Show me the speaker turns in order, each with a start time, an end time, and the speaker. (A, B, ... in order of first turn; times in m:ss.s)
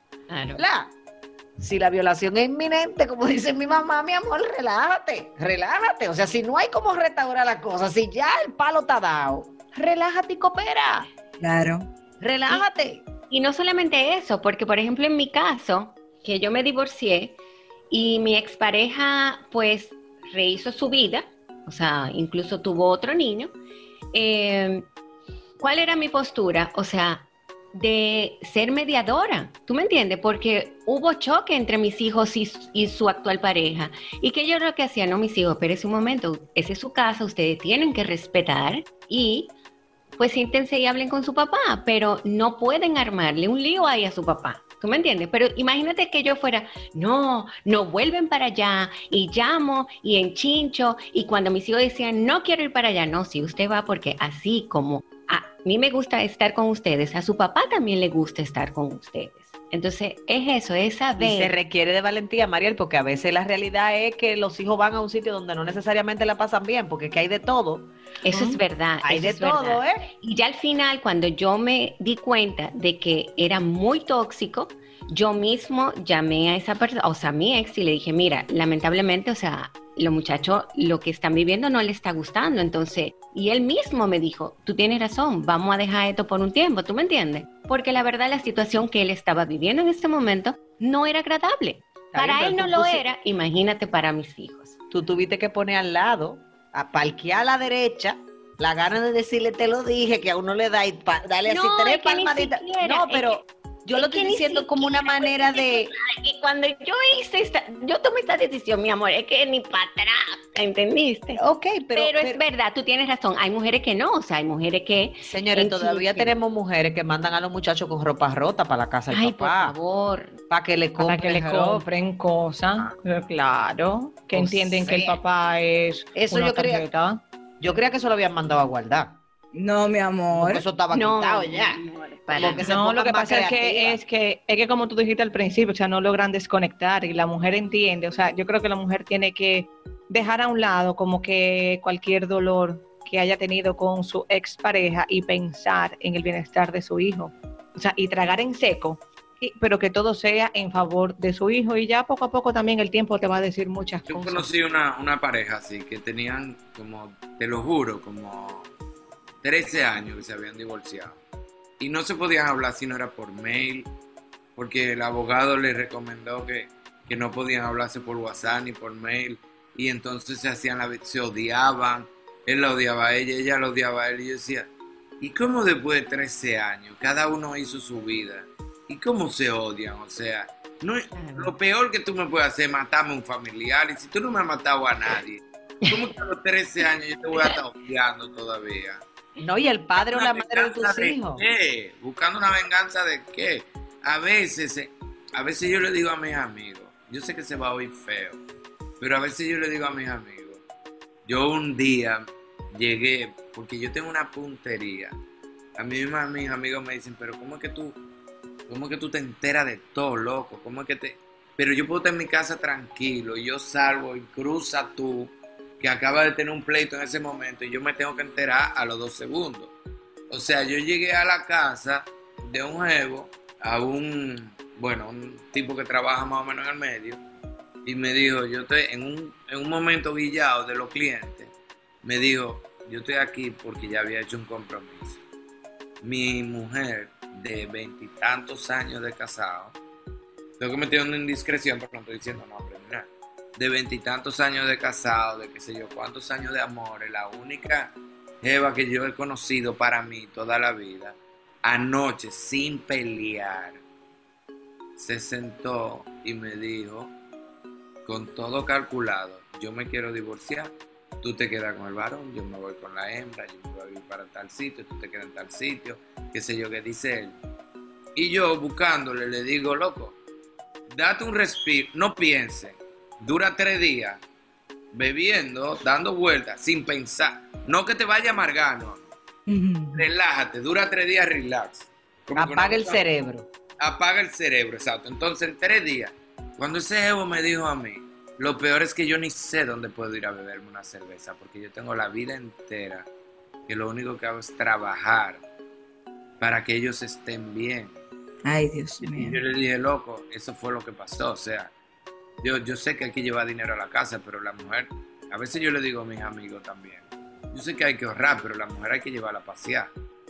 0:00.3-0:00.6 A
0:00.6-0:00.9 B
0:01.6-0:11.1 B
0:11.4-0:11.9 C
0:12.2-0:13.0 B
0:13.3-0:17.4 A
0:17.9-0:23.5 A
0:24.1-0:24.8 A
0:25.6-0:39.5 A
0:40.2-1:01.5 A
1:01.2-1:10.1 B
1:08.2-1:34.7 A
1:32.1-1:33.0 B
1:34.9-1:45.9 B
1:41.4-1:43.4 A
1:44.0-1:51.4 A
1:51.4-1:52.4 B
1:51.9-1:56.3 A
1:55.2-1:59.7 B
1:59.1-2:00.4 A
2:00.5-2:01.8 B
2:01.0-2:07.2 D
2:04.3-2:05.2 B
2:06.1-2:06.8 B
2:07.6-2:09.2 B
2:09.5-2:10.6 C
2:10.3-2:14.0 B
2:10.9-2:12.7 A
2:12.5-2:34.5 D
2:34.1-2:38.7 E
2:39.4-2:41.2 E
2:41.8-2:43.9 E
2:44.6-2:54.6 E
2:55.2-3:09.0 E
3:01.1-3:01.5 A
3:09.4-3:11.4 B
3:10.0-3:18.4 E
3:19.0-3:20.6 E
3:21.2-3:25.1 E
3:25.8-3:28.0 E
3:28.7-3:39.7 E
3:40.3-3:47.2 E
3:47.8-3:51.5 E
3:52.0-3:55.2 E
3:56.0-3:59.8 E
4:00.6-4:03.0 E
4:03.6-4:13.8 E
4:15.0-4:17.1 E
4:18.0-4:27.3 E
4:28.2-4:30.1 E
4:30.9-4:34.2 E
4:34.9-4:39.1 E
4:39.5-4:40.0 C
4:39.9-4:43.0 E
4:42.4-4:43.5 B
4:43.8-4:53.0 E
4:53.7-4:55.4 E
4:56.4-4:57.9 E
4:58.4-4:59.4 C
4:59.0-5:01.7 E
5:02.4-5:09.9 E